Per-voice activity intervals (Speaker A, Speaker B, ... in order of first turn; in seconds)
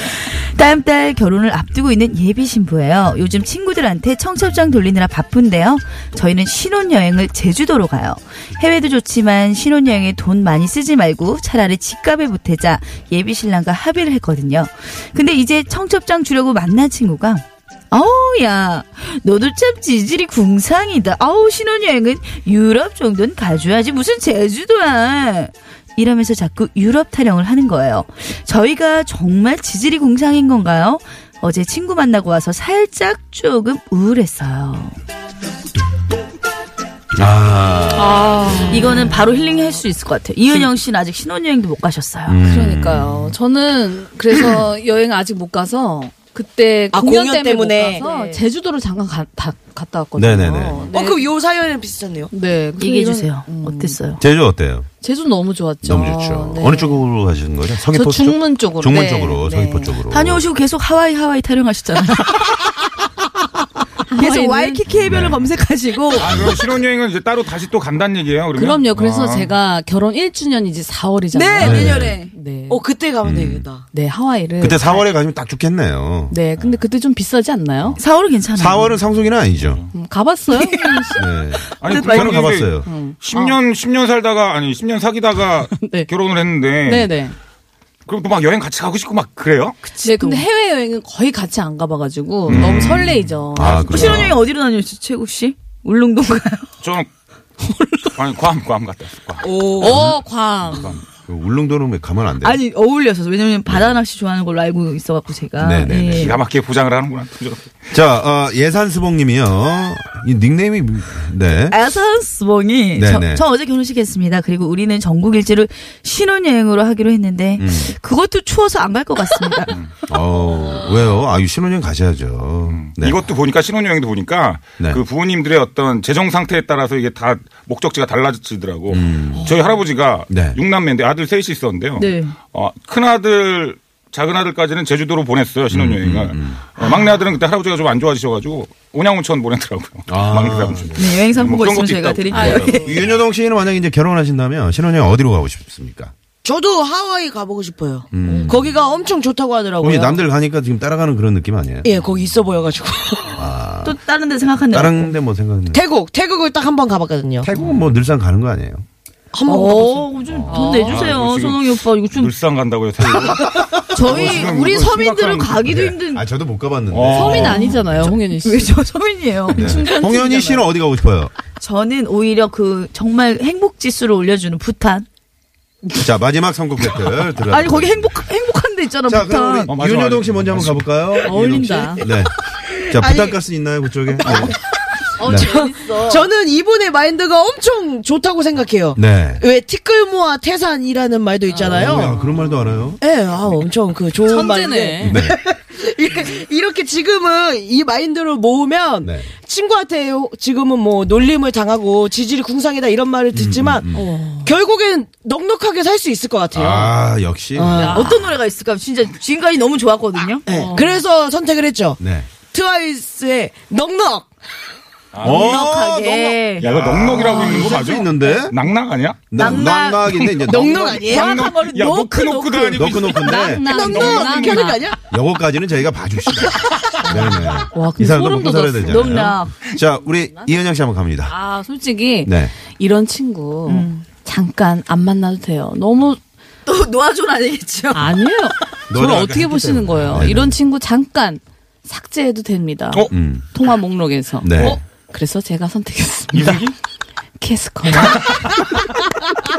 Speaker A: 0.4-35.0, 38.6-42.4, 48.0-48.4, 52.8-54.2, 59.6-62.9, 64.1-66.4, 71.3-72.3, 78.0-79.0, 80.5-81.2, 81.7-82.5, 89.9-90.4, 93.8-96.7, 102.4-106.4, 111.7-119.8, 132.0-132.4, 141.0-142.9, 148.2-148.5, 153.8-155.1, 159.4-162.3, 163.1-166.2, 167.4-169.7, 171.6-175.1, 177.5-179.7, 185.2-186.3, 207.9-210.4, 215.2-217.7, 219.3-220.1, 220.8-223.2, 228.8-229.5, 233.7-234.1, 236.7-238.1
Speaker B: 37.2-38.8, 42.3-43.3, 50.2-50.9, 54.2-54.9, 55.8-60.4, 65.0-65.4, 66.2-66.6, 71.6-72.2, 73.2-73.7, 74.6-76.7, 78.5-79.8, 81.2-82.9, 92.5-94.4, 101.2-102.6, 103.7-104.0, 105.6-106.4, 107.9-111.8, 113.0-113.4, 117.6-117.9, 120.1-123.2, 128.9-129.5, 130.3-130.6, 135.7-136.6, 140.1-141.2, 142.4-146.1, 148.1-148.7, 149.8-151.9, 153.3-154.0, 154.7-155.8, 157.4-158.8, 160.3-160.8, 166.1-167.9, 169.5-171.3, 176.0-178.2, 179.1-182.3, 182.9-184.6, 185.2-185.5, 188.9-189.4, 191.6-193.0, 195.0-195.4, 199.0-199.3, 203.3-204.1, 206.6-207.9, 212.0-212.3, 215.2-218.6, 219.3-221.1, 222.8-224.2, 225.1-231.3, 232.2-232.5, 238.9-240.6, 243.1-243.5, 244.4-244.8
Speaker C: 37.9-39.8, 42.4-51.2, 52.3-54.0, 55.0-57.0, 57.9-59.6, 64.1-64.8, 68.5-72.8, 73.9-75.0, 76.3-78.0, 79.9-81.2, 82.8-83.6, 85.8-86.1, 86.8-87.3, 90.0-94.3, 99.8-101.0, 142.3-142.8, 160.5-161.1, 167.1-168.8, 169.5-170.7, 181.2-182.1, 191.5-192.4, 194.2-195.2, 203.9-204.5, 207.7-208.2, 210.5-211.0, 223.2-224.9, 227.1-229.3, 231.3-236.2, 237.9-246.6, 247.4-248.7
Speaker D: 46.9-48.1, 50.9-52.3, 72.7-73.8, 99.4-100.1, 146.4-150.2, 151.8-153.4, 155.7-157.5, 159.3-160.1, 182.7-183.4, 184.2-184.5, 185.2-192.2, 193.0-203.9, 204.4-206.9, 207.6-208.2, 210.4-214.3, 215.2-216.4, 220.1-221.4, 223.6-225.0
Speaker E: 66.2-69.5, 79.5-79.9, 81.8-87.2, 88.1-89.8, 92.5-93.3, 96.8-97.1, 98.2-100.1, 100.7-101.0, 106.0-107.9, 122.7-142.8, 160.8-165.9, 166.9-167.6, 179.7-180.9, 215.1-215.6, 216.6-219.4, 220.4-223.3, 246.3-246.8, 248.0-248.6